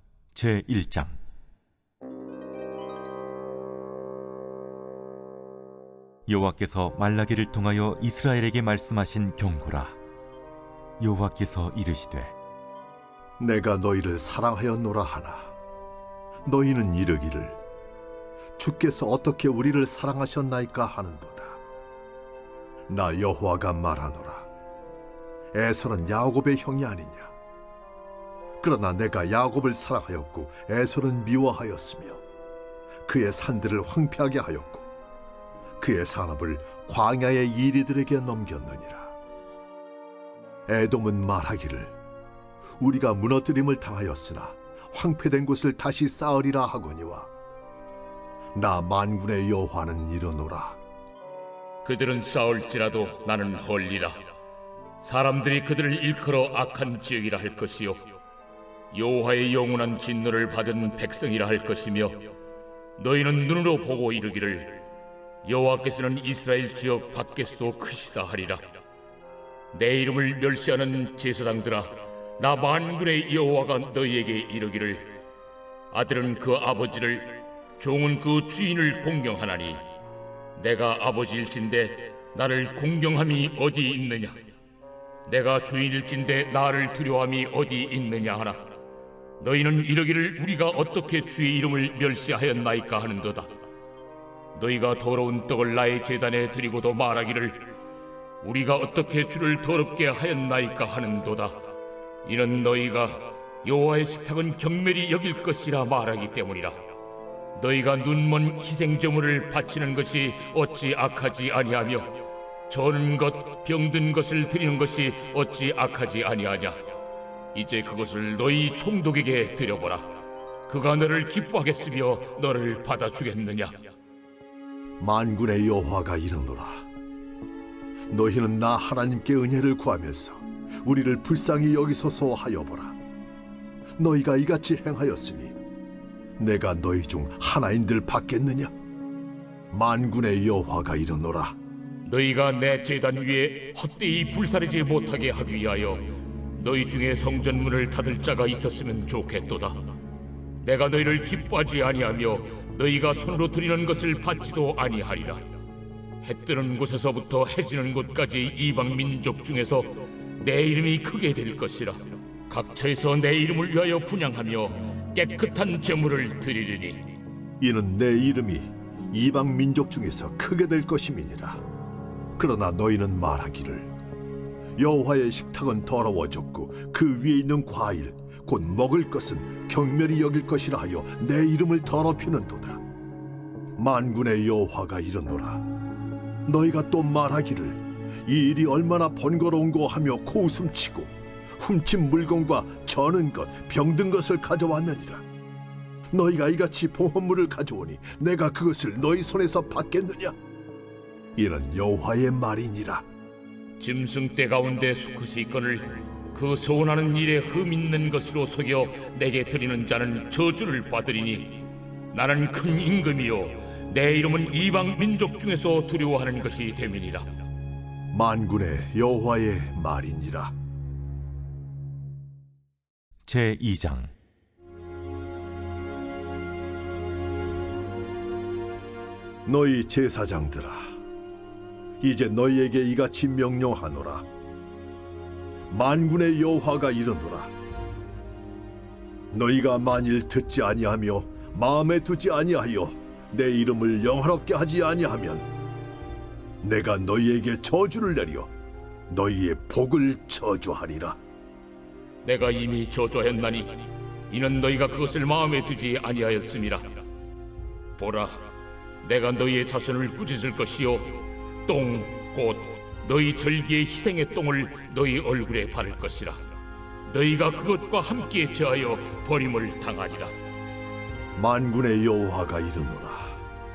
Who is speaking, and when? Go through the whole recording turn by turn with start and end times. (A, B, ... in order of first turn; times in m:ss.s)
0:00.3-0:01.2 A
0:06.3-0:10.0 A
0:11.0-0:12.3 A
0:13.4-0:15.5 B
0:16.4-0:17.6 B
0:18.6-0:21.6 B
0:22.9-0:24.5 B
0:25.5-0:27.3 B
0:28.6-0:32.2 B
0:33.0-0:34.9 B
0:35.8-0:39.1 B
0:40.7-0:41.9 B
0:42.8-0:47.3 B
0:48.5-0:50.8 B
0:51.8-0:54.2 C
0:55.0-0:58.1 C
0:58.9-1:02.3 C
1:03.0-1:04.8 C
1:05.4-1:08.7 C
1:09.7-1:15.1 C
1:15.9-1:19.8 C
1:20.6-1:24.5 C
1:25.3-1:28.8 C
1:29.4-1:33.5 C
1:34.5-1:37.7 C
1:38.4-1:41.7 C
1:42.2-1:46.8 C
1:47.5-1:56.9 C
1:57.5-2:03.9 C
2:05.0-2:06.9 B
2:08.1-2:13.0 B
2:14.0-2:15.5 B
2:16.4-2:18.7 B
2:19.7-2:21.6 B
2:22.0-2:29.8 C
2:30.6-2:35.4 C
2:36.2-2:47.1 C
2:47.6-2:51.6 B
2:52.4-2:53.9 B
2:54.8-3:02.8 B
3:03.8-3:05.6 B
3:06.4-3:15.2 B
3:16.1-3:20.3 B
3:21.4-3:23.0 B
3:23.8-3:37.3 C
3:38.1-3:40.5 B
3:43.2-3:44.1 A
3:49.4-3:50.9 B
3:52.0-3:54.2 B
3:55.7-3:57.5 B
3:59.3-4:05.4 B
4:06.6-4:08.5 B
4:09.1-4:11.2 B
4:12.2-4:17.0 C
4:18.0-4:18.4 C
4:19.0-4:26.4 C
4:27.1-4:30.3 C
4:31.4-4:33.4 B